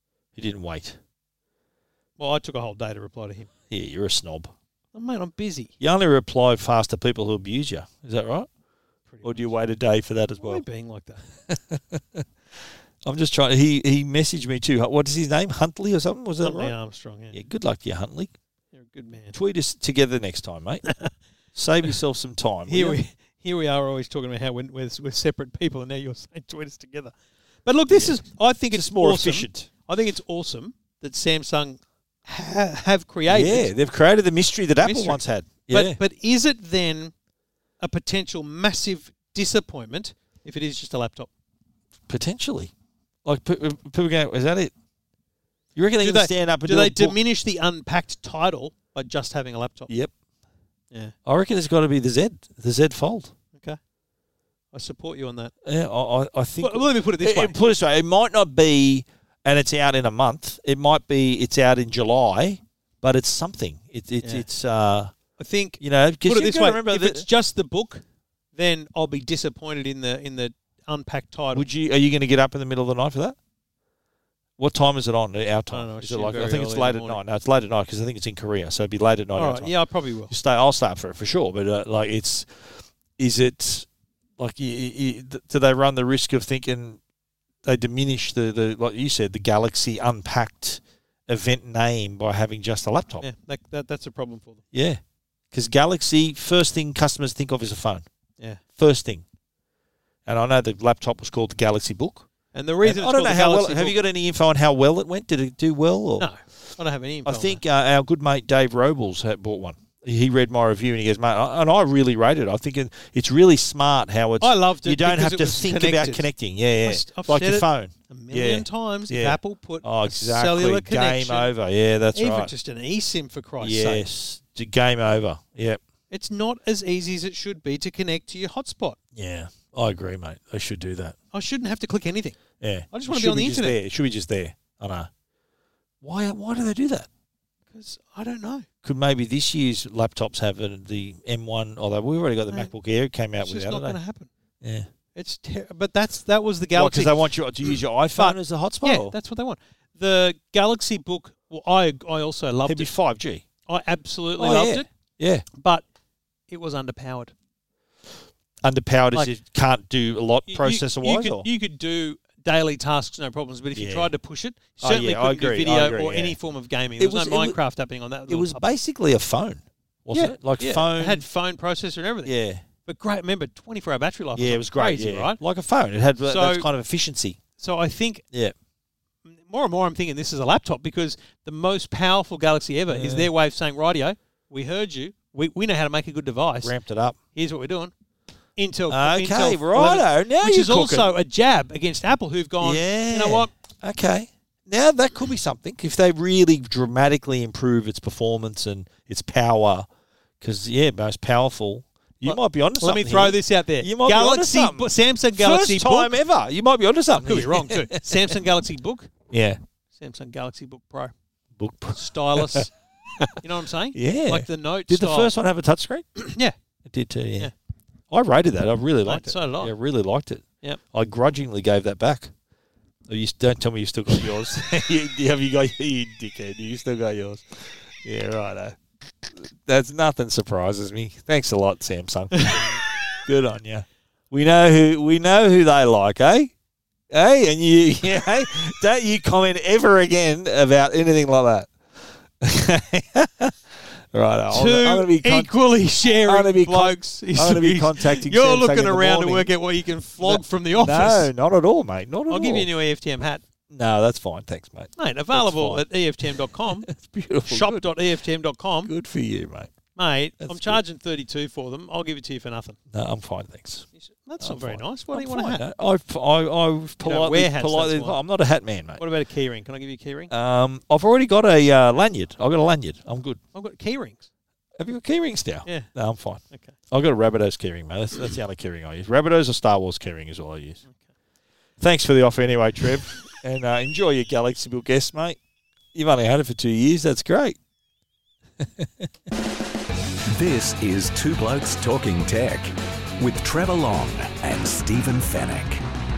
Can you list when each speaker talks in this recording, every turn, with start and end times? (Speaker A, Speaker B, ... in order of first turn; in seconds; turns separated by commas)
Speaker A: 0.3-1.0, Speaker B: 2.2-3.5, Speaker A: 3.7-4.5, Speaker B: 4.9-5.7, Speaker A: 5.8-8.5, Speaker B: 9.1-9.5, Speaker A: 9.2-10.6, Speaker B: 10.4-11.2, Speaker A: 11.5-12.3, Speaker A: 13.1-16.8, Speaker B: 16.4-17.4, Speaker A: 17.3-18.3, Speaker B: 18.7-19.4, Speaker A: 19.3-20.9, Speaker A: 21.5-23.0, Speaker B: 22.7-27.1, Speaker B: 27.6-33.7, Speaker A: 27.9-28.2, Speaker A: 28.7-29.7, Speaker A: 33.3-36.0, Speaker B: 34.8-37.1, Speaker B: 37.8-41.3, Speaker A: 42.1-42.7, Speaker A: 43.2-44.7, Speaker A: 45.8-47.2, Speaker B: 46.0-49.9, Speaker A: 51.3-53.3, Speaker B: 54.7-55.5, Speaker A: 55.6-65.2, Speaker B: 56.6-57.6, Speaker B: 65.4-71.7, Speaker A: 65.8-67.3, Speaker A: 71.5-73.4, Speaker A: 74.6-79.7, Speaker B: 75.7-77.2, Speaker B: 79.3-80.3, Speaker A: 80.3-83.9, Speaker A: 84.4-87.0, Speaker A: 87.7-93.3, Speaker B: 93.2-94.6, Speaker A: 94.7-95.0, Speaker A: 95.5-98.1, Speaker A: 98.7-99.2, Speaker A: 100.3-102.3, Speaker B: 102.5-104.0, Speaker A: 102.8-106.3, Speaker B: 106.2-107.6, Speaker A: 107.2-122.5, Speaker B: 114.4-116.3, Speaker B: 116.8-121.5, Speaker B: 122.1-124.1, Speaker A: 123.6-125.8, Speaker B: 126.1-129.0, Speaker A: 129.2-131.2, Speaker B: 131.3-132.4, Speaker A: 132.6-135.1, Speaker B: 132.9-133.8, Speaker A: 136.0-137.1, Speaker B: 137.7-138.7, Speaker A: 138.8-144.0, Speaker B: 143.4-144.3, Speaker A: 144.6-144.9, Speaker B: 145.2-147.2, Speaker A: 146.7-149.2, Speaker B: 148.2-152.9, Speaker A: 152.7-153.4, Speaker B: 153.7-154.9, Speaker A: 154.4-155.4, Speaker B: 155.5-155.8, Speaker B: 156.5-157.3, Speaker A: 158.6-161.5, Speaker B: 160.5-168.8, Speaker A: 163.7-164.1, Speaker A: 164.8-166.4, Speaker A: 167.0-167.6, Speaker A: 168.3-171.2, Speaker B: 170.1-172.3, Speaker A: 172.2-172.6, Speaker B: 172.8-175.4, Speaker A: 174.4-177.4, Speaker B: 176.2-176.7, Speaker B: 177.6-178.3, Speaker B: 179.3-186.8, Speaker A: 182.9-183.3, Speaker A: 186.6-187.2, Speaker B: 187.3-187.9, Speaker B: 188.6-193.5, Speaker A: 188.9-191.1, Speaker A: 192.6-199.9, Speaker A: 200.4-208.3, Speaker B: 202.2-206.1, Speaker B: 207.2-209.1, Speaker A: 209.3-209.6, Speaker B: 209.9-211.1, Speaker A: 211.6-212.7, Speaker B: 211.9-212.7, Speaker B: 213.4-215.3, Speaker A: 213.9-216.1, Speaker B: 216.2-216.6, Speaker A: 216.9-217.5, Speaker A: 218.1-222.3, Speaker B: 219.1-219.7, Speaker A: 223.1-236.5, Speaker B: 232.4-232.8, Speaker A: 237.1-241.7, Speaker A: 242.4-245.5, Speaker B: 244.5-251.3, Speaker A: 246.3-249.5, Speaker A: 250.2-252.7, Speaker B: 252.3-253.4, Speaker A: 253.7-255.8, Speaker B: 255.0-256.9, Speaker A: 256.8-257.9, Speaker B: 257.5-258.9, Speaker A: 258.9-259.7, Speaker B: 260.0-262.8, Speaker A: 260.4-260.8, Speaker A: 262.9-263.9, Speaker B: 264.0-265.6, Speaker A: 264.4-269.0, Speaker B: 267.0-268.2, Speaker B: 269.0-270.3, Speaker A: 270.3-273.4, Speaker B: 273.5-274.3, Speaker A: 274.8-280.8, Speaker A: 281.8-285.4, Speaker A: 285.9-287.6, Speaker A: 288.6-289.1, Speaker C: 290.3-295.8